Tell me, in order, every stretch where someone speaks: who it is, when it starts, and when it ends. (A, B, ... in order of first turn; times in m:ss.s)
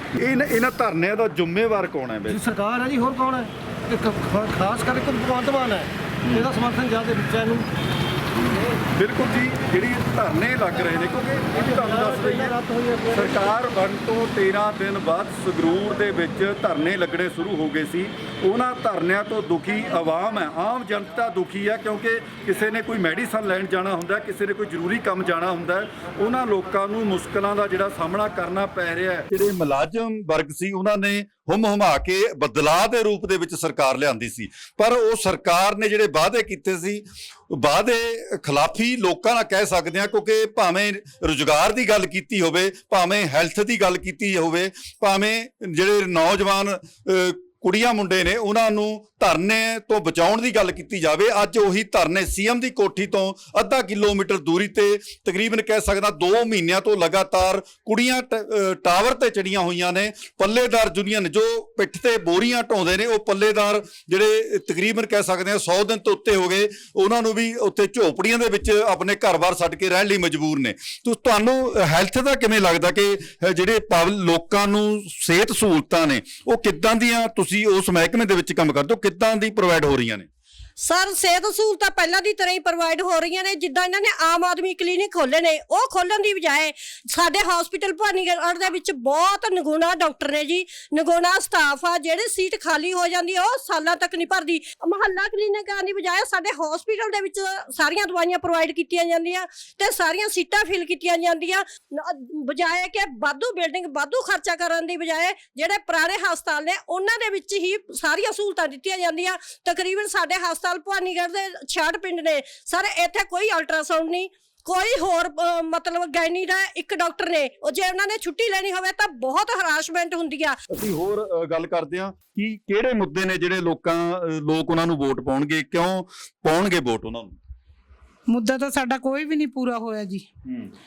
0:00.2-0:02.4 A
0:02.3-0:07.7 B
0:06.2-0:06.5 A
0:08.5-0:12.6 A
0:11.6-0:13.5 B
0:13.1-1:20.3 A
1:20.8-2:00.6 C
2:00.7-2:07.4 A
2:08.3-2:10.2 D